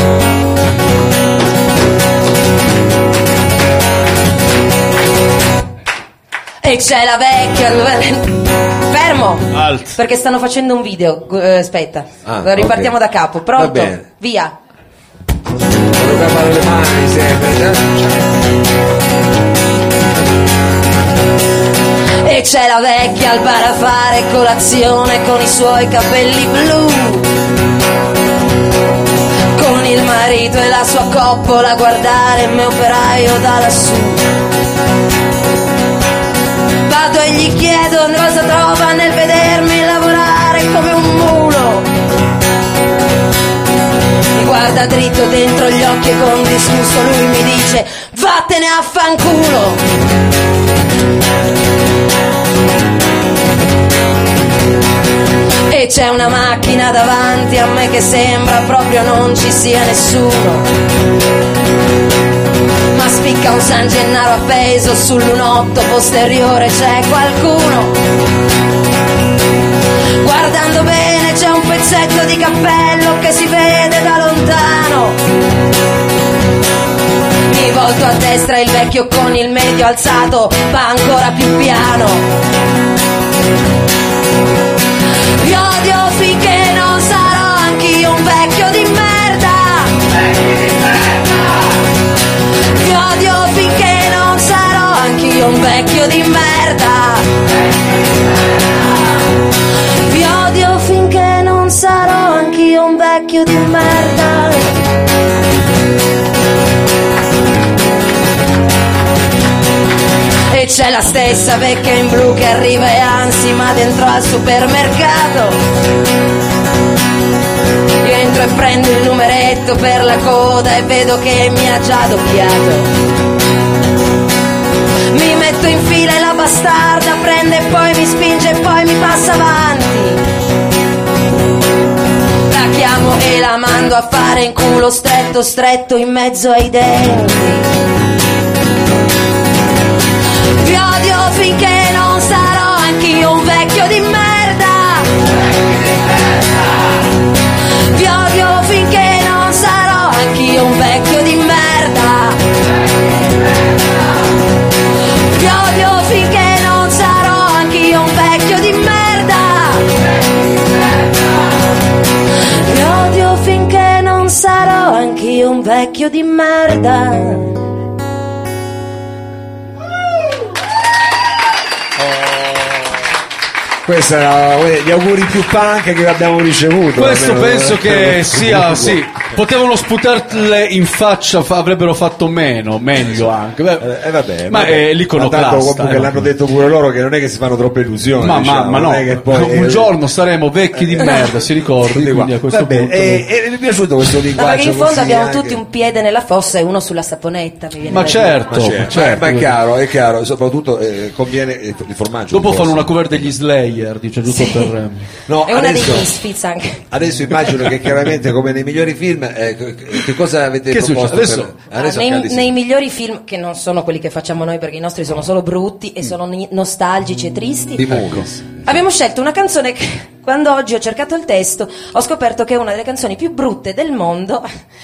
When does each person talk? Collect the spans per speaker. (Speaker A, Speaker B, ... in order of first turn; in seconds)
Speaker A: 6.6-14.5, 22.2-27.3, 29.6-34.2, 36.8-41.9, 44.3-49.8, 55.7-60.7, 62.9-67.9, 70.2-75.2, 77.5-82.3, 85.4-90.0, 92.7-97.3, 100.0-104.7, 110.5-115.6, 118.0-122.9, 125.1-130.2, 132.5-137.7, 140.6-145.1, 147.9-152.4, 155.3-159.9, 162.6-167.6, 194.3-198.4, 204.3-204.7, 205.4-206.8, 211.7-217.8, 218.6-224.5
Speaker B: 9.5-9.9, 176.9-183.9, 184.5-186.3, 188.2-193.2, 197.9-199.5, 202.3-205.1, 210.7-211.5, 217.9-218.2
Speaker C: 12.2-12.9, 13.5-14.0, 15.9-18.1, 173.8-179.1, 183.0-189.9, 190.7-195.6, 198.4-203.3, 205.3-206.1, 206.9-212.5, 217.8-218.8